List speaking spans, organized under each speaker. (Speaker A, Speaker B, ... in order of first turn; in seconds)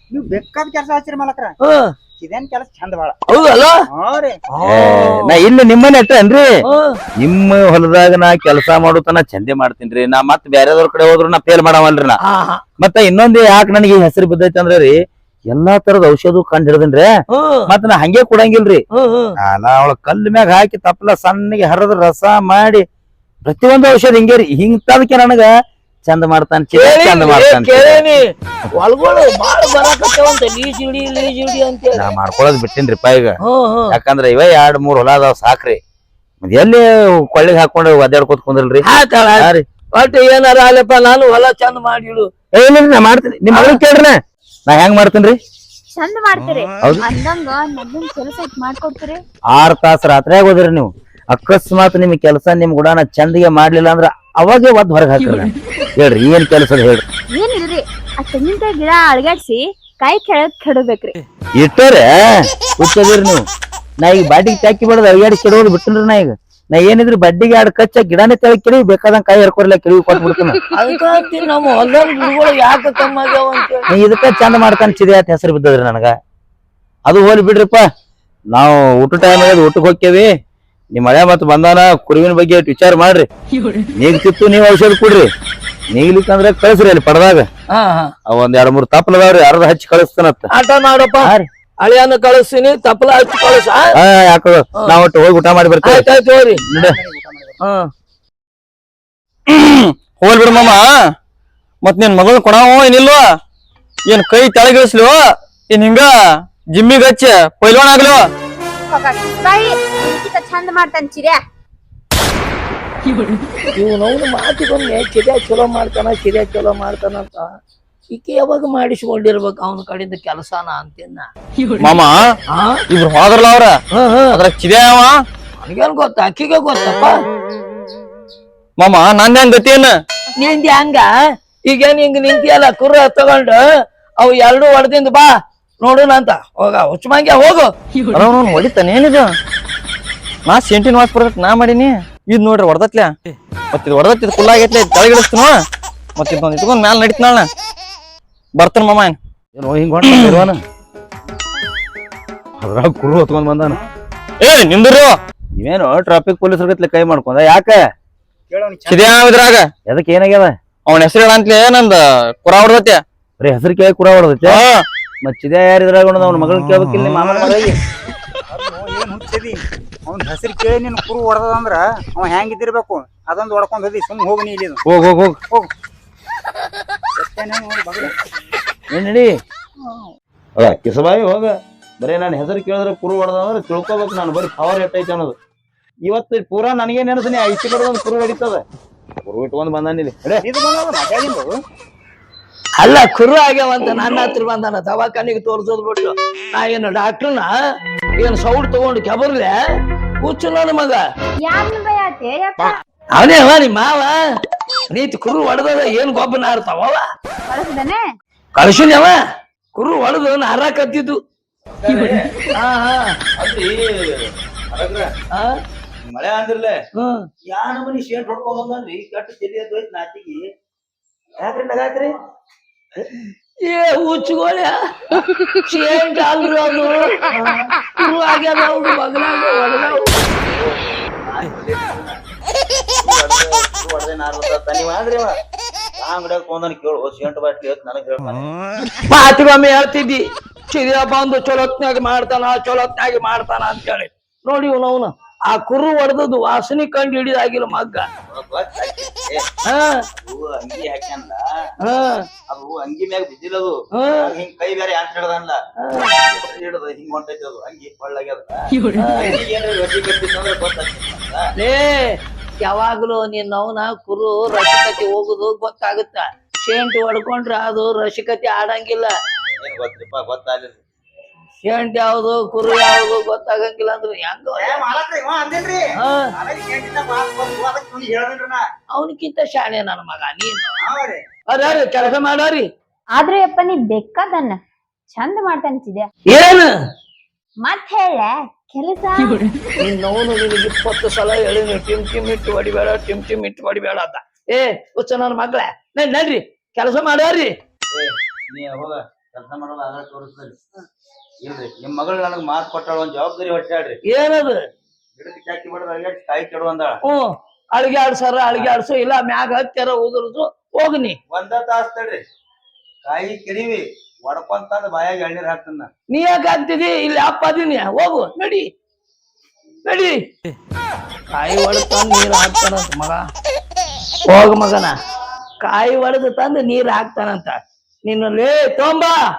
Speaker A: 0.1-1.6, 2.2-3.2, 3.9-4.4, 96.7-97.6, 158.5-159.2, 168.5-174.8, 177.2-178.1, 190.4-191.6, 274.6-278.6, 280.8-281.2
Speaker B: 1.6-1.9, 3.3-3.8, 4.5-5.4, 6.7-7.0, 12.2-12.6, 17.3-17.7, 18.9-19.3, 26.7-28.2, 28.8-32.1, 33.5-34.0, 38.9-42.3, 43.5-43.8, 70.8-73.8, 87.7-88.1, 90.5-94.0, 95.8-96.6, 97.6-97.9, 113.8-117.5, 118.1-121.3, 122.5-122.8, 123.9-124.4, 125.6-127.2, 130.4-131.1, 131.7-133.6, 134.2-137.7, 192.8-197.5, 198.2-199.6, 200.2-201.0, 203.1-204.2, 204.9-207.0, 208.6-209.2, 209.7-211.2, 212.6-213.2, 215.3-215.6, 217.0-217.3, 223.7-227.2, 228.0-230.2, 239.0-248.1, 249.7-250.0, 251.8-252.2, 254.0-254.3, 255.8-256.1, 258.9-259.4, 261.6-269.1, 271.6-274.8, 276.0-276.3, 278.9-280.7, 281.5-282.7, 286.3-286.7, 289.8-297.5, 304.1-304.6, 307.0-311.2, 316.1-318.7, 319.9-320.3, 321.3-323.3, 324.3-325.0, 325.6-329.2
Speaker C: 4.7-6.5, 7.2-12.2, 12.8-14.9, 15.5-17.1, 17.7-18.8, 19.5-22.8, 23.4-25.5, 26.1-28.1, 32.0-33.3, 33.9-35.8, 36.4-38.9, 42.6-45.4, 49.5-57.0, 61.6-63.4, 64.0-70.6, 73.9-76.1, 77.1-77.8, 78.5-80.3, 80.9-83.3, 84.0-85.3, 85.9-87.5, 88.3-90.5, 94.0-96.1, 96.7-97.0, 149.6-150.6, 152.6-153.8, 155.6-157.8, 159.9-160.5, 163.4-164.6, 165.2-167.8, 174.9-175.4, 178.9-179.3, 180.6-185.3, 186.1-188.6, 189.3-190.4, 211.7-212.3, 213.4-215.1, 216.0-216.8, 217.5-220.5, 221.4-222.1, 227.3-227.7, 230.2-232.2, 233.0-235.3, 236.0-238.4, 248.3-249.4, 250.1-251.4, 252.5-255.6, 256.2-261.4, 269.6-270.8, 297.9-300.6, 301.4-304.0, 305.2-307.0, 311.3-312.2, 313.1-315.9
Speaker D: 46.0-49.2, 57.3-61.2, 108.9-111.4, 201.4-202.8, 207.5-208.1, 283.2-284.6, 285.1-286.1, 287.6-289.6
Speaker E: 99.5-100.8, 101.8-103.2, 104.1-105.2, 105.7-106.1, 106.7-108.2, 121.8-122.2, 122.9-123.8, 124.3-125.1, 128.8-129.9, 138.1-139.3, 140.5-143.1, 143.7-145.6, 146.2-147.5, 148.6-149.2, 154.4-155.2, 158.9-159.7, 160.9-163.0, 164.4-164.8